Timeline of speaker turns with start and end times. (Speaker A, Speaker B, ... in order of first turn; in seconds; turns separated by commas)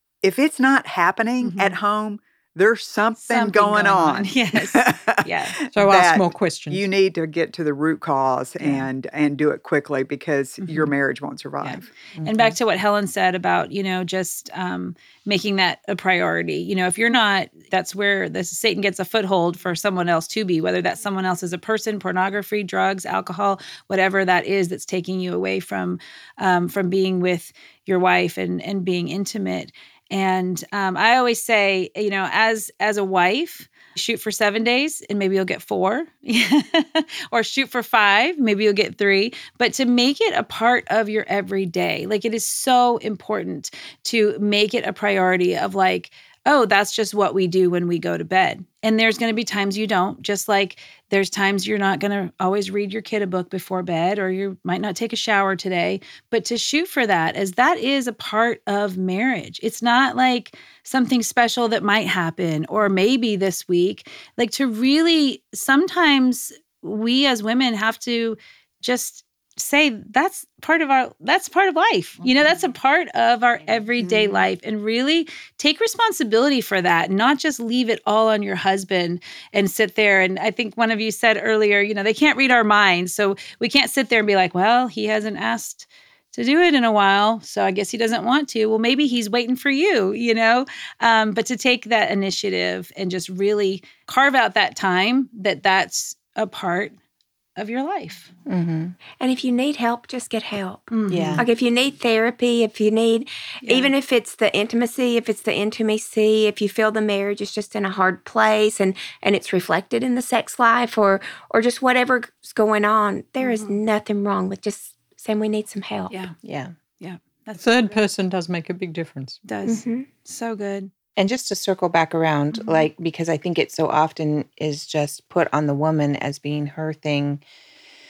Speaker A: 0.2-11.9, Speaker B: 1.4-1.8, Speaker B: 3.2-5.6, Speaker C: 5.8-6.9, Speaker B: 8.6-8.9, Speaker B: 10.6-10.9, Speaker B: 11.6-97.0, Speaker D: 12.2-12.6, Speaker C: 74.0-74.5, Speaker B: 97.6-98.3, Speaker D: 98.5-99.0, Speaker E: 99.2-116.3, Speaker B: 100.9-101.5, Speaker D: 101.1-101.5, Speaker B: 103.6-103.9, Speaker B: 113.4-113.8, Speaker D: 116.4-116.7, Speaker B: 117.0-117.9, Speaker C: 117.6-119.4, Speaker B: 119.5-120.9, Speaker E: 119.7-120.1, Speaker D: 121.2-127.4, Speaker B: 122.6-122.8